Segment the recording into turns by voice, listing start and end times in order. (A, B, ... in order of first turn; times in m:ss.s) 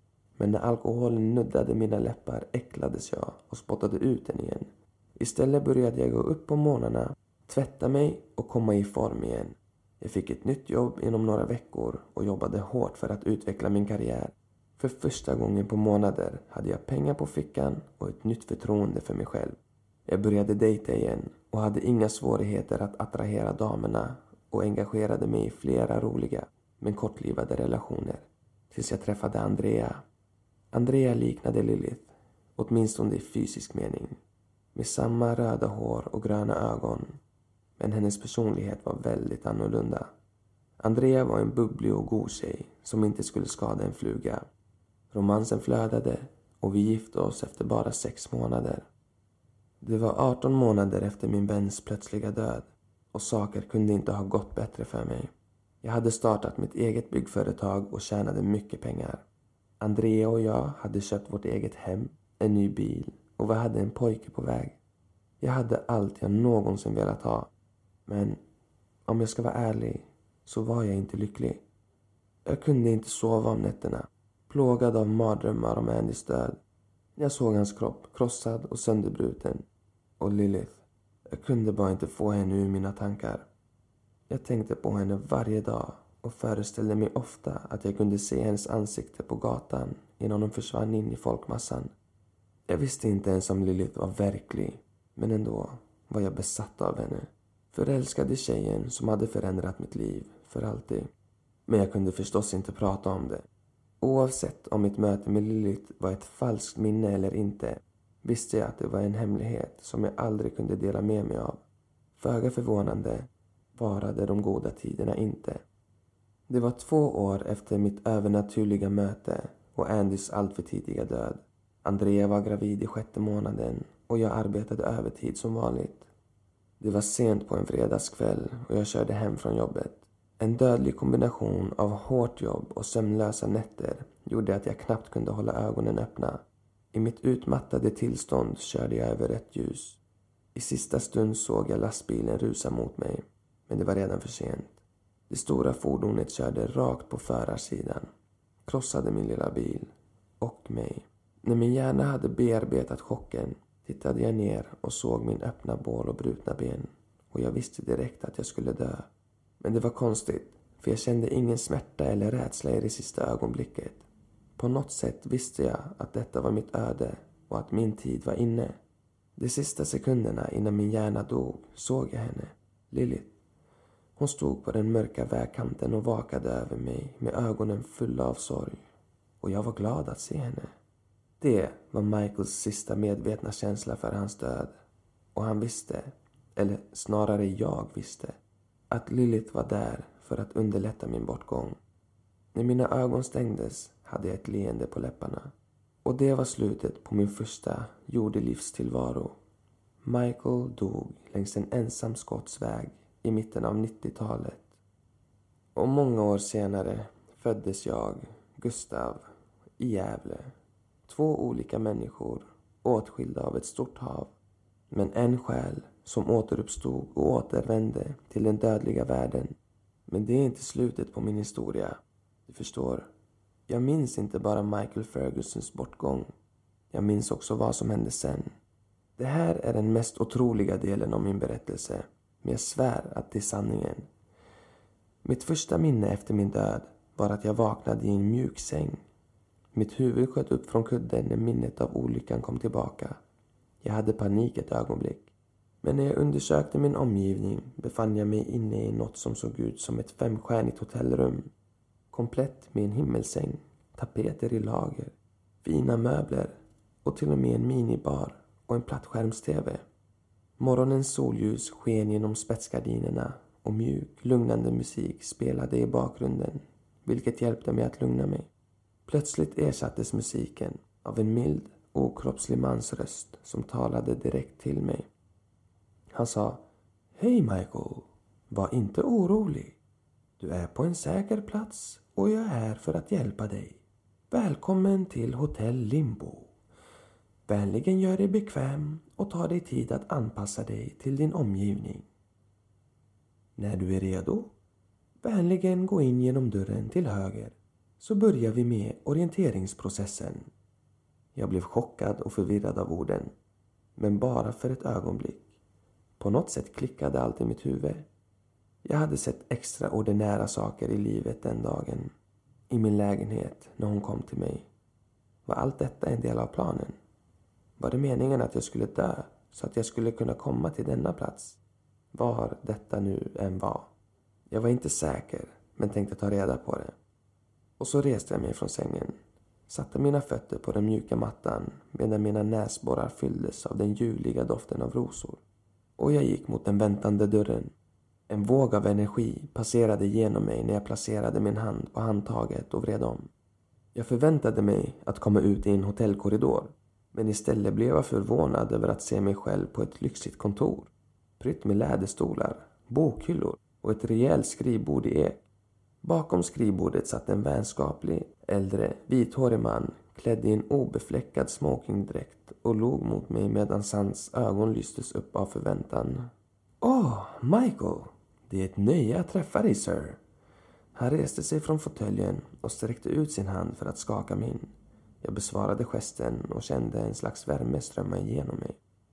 0:00.4-0:30.0 A
0:30.7-0:34.2 A
0:34.8-0:37.2 A
0:37.8-0:40.1 A
0:40.8-0:44.5 A
0:45.1-0:48.9 A
0:49.8-0:55.3 A
0:55.8-0:59.2 A
0:59.8-1:04.8 A
1:05.4-1:07.5 A
1:08.1-1:08.4 A
1:09.1-1:11.6 A
1:12.5-1:16.6 A
1:17.2-1:19.7 A
1:20.2-1:23.5 A
1:24.3-1:31.9 A
1:32.7-1:41.1 A
1:41.7-1:43.5 A
1:44.0-1:51.6 A
1:52.2-1:55.6 A
1:56.5-2:06.1 A
2:06.8-2:20.0 A
2:20.6-2:28.1 A
2:28.7-2:39.1 A
2:39.6-2:44.1 A
2:44.6-2:48.8 A
2:49.4-2:53.4 A
2:54.2-2:58.8 A
2:59.4-3:00.7 A
3:01.4-3:04.8 A
3:05.4-3:08.4 A
3:08.9-3:11.8 A
3:12.6-3:15.5 A
3:16.0-3:19.4 A
3:20.0-3:24.8 A
3:25.8-3:29.2 A
3:29.8-3:30.5 A
3:31.1-3:34.3 A
3:34.9-3:43.1 A
3:43.7-3:46.3 A
3:46.9-3:48.6 A
3:49.2-3:54.1 A
3:55.2-3:59.0 A
3:59.7-4:03.2 A
4:03.8-4:11.5 A
4:12.1-4:19.8 A
4:20.6-4:28.5 A
4:29.1-4:35.1 A
4:36.2-4:36.6 A
4:37.2-4:39.8 A
4:40.4-4:46.5 A
4:47.5-4:52.1 A
4:53.6-4:54.5 A
4:55.2-5:00.5 A
5:01.4-5:03.3 A
5:04.0-5:05.5 A
5:06.2-5:08.1 A
5:08.8-5:12.1 A
5:12.7-5:14.7 A
5:15.4-5:17.0 A
5:17.8-5:21.6 A
5:22.1-5:23.9 A
5:24.5-5:27.0 A
5:27.8-5:35.4 A
5:36.0-5:37.7 A
5:38.3-5:43.3 A
5:44.0-5:55.4 A
5:56.0-6:10.2 A
6:11.0-6:18.8 A